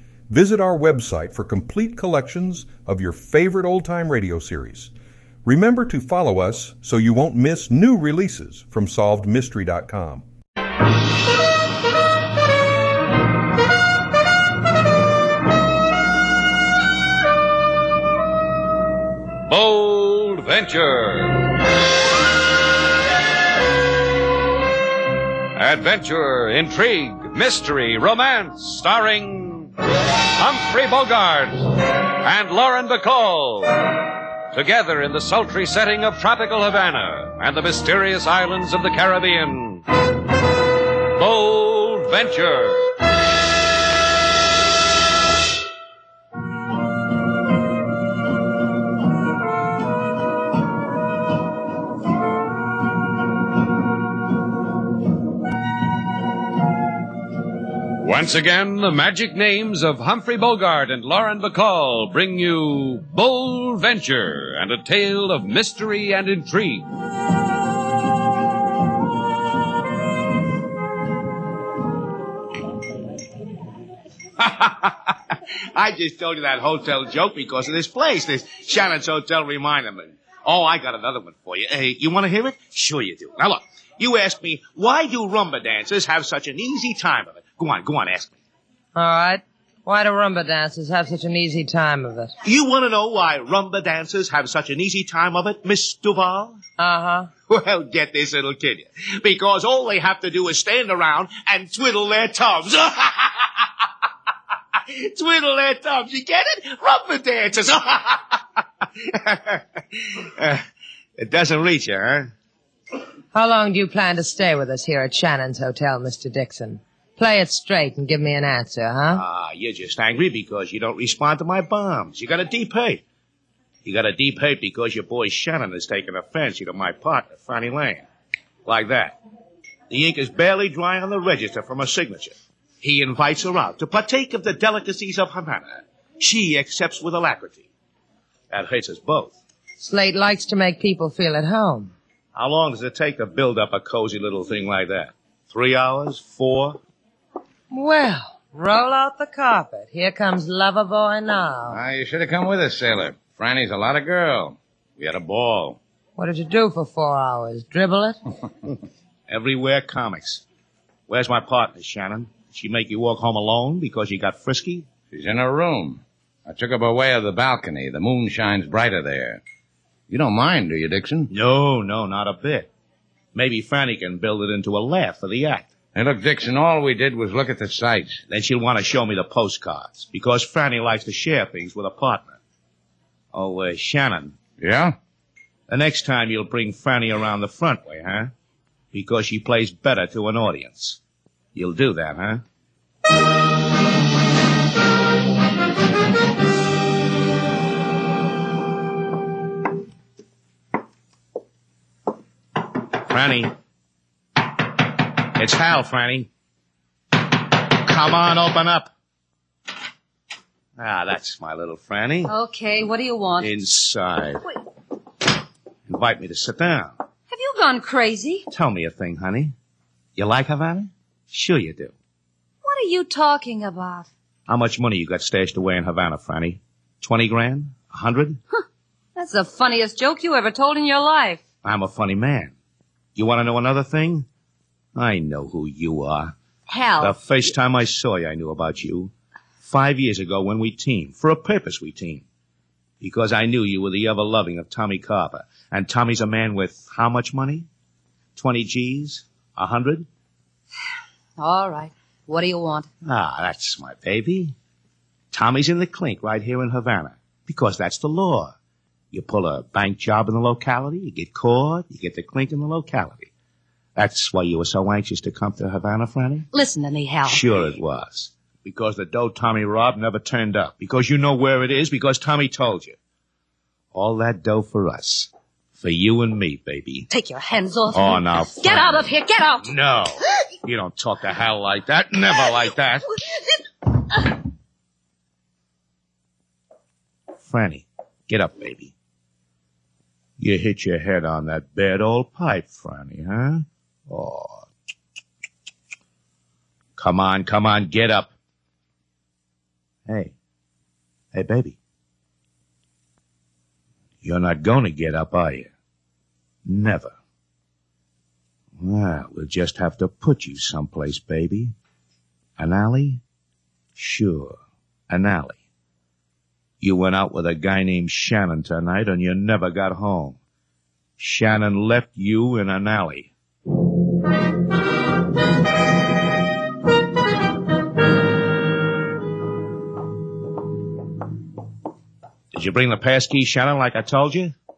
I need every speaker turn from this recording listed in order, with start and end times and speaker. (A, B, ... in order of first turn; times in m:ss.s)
0:00.3-0:04.9 A
0:05.4-0:10.2 A
0:19.4-0:21.5 B
0:25.5-0:29.7 B
0:30.3-0:31.7 B
0:32.2-0:33.9 B
0:34.5-0:39.8 B
0:41.1-0:43.0 B
0:58.0-1:06.9 B
1:14.4-1:28.4 C
1:29.0-1:32.3 D
1:32.4-1:36.6 C
1:36.8-1:37.3 D
1:37.5-1:43.7 C
1:44.7-1:50.6 C
1:51.2-1:52.3 C
1:53.3-1:59.2 D
1:59.2-2:03.0 C
2:03.8-2:08.1 C
2:08.6-2:09.2 C
2:09.9-2:17.7 C
2:18.5-2:19.4 C
2:19.8-2:21.9 D
2:22.4-2:26.8 C
2:27.7-2:31.8 D
2:31.7-2:35.8 E
2:36.2-2:38.2 D
2:39.3-2:40.4 C
2:41.1-2:44.9 C
2:45.1-2:49.4 E
2:50.1-2:51.3 E
2:51.3-2:52.7 C
2:53.3-2:55.7 C
2:55.9-2:58.2 E
2:58.3-3:02.4 C
3:03.3-3:04.4 C
3:04.6-3:05.0 E
3:05.7-3:08.3 C
3:08.9-3:11.0 C
3:11.6-3:12.4 C
3:23.0-3:23.5 C
3:25.2-3:26.3 C
3:27.7-3:28.9 C
3:30.8-3:32.3 C
3:32.2-3:33.6 F
3:33.4-3:34.4 C
3:35.9-3:37.0 C
3:37.3-3:38.5 F
3:38.5-3:39.5 C
3:40.2-3:41.9 C
3:42.6-3:44.1 F
3:44.5-3:48.4 C
3:49.2-3:51.4 F
3:51.6-3:52.5 C
3:53.2-3:54.3 C
3:55.0-3:56.4 C
3:56.7-3:57.2 F
3:57.0-3:59.1 C
3:59.6-4:02.2 C
4:03.0-4:07.7 C
4:08.4-4:10.1 C
4:11.4-4:12.9 F
4:13.0-4:14.6 C
4:15.3-4:18.6 C
4:19.1-4:23.3 C
4:24.0-4:26.5 C
4:26.5-4:27.8 F
4:27.2-4:33.0 C
4:33.9-4:37.1 C
4:37.1-4:39.7 F
4:37.9-4:39.1 C
4:39.6-4:43.1 C
4:42.4-4:42.7 F
4:47.4-4:48.9 C
4:50.4-4:54.7 C
4:57.0-4:58.3 C
5:00.1-5:00.3 C
5:01.3-5:01.8 C
5:04.2-5:05.7 C
5:06.7-5:07.1 C
5:08.8-5:11.7 C
5:12.6-5:13.2 C
5:14.0-5:14.6 C
5:15.1-5:15.6 C
5:16.8-5:20.4 C
5:21.2-5:23.3 C
5:32.5-5:34.5 C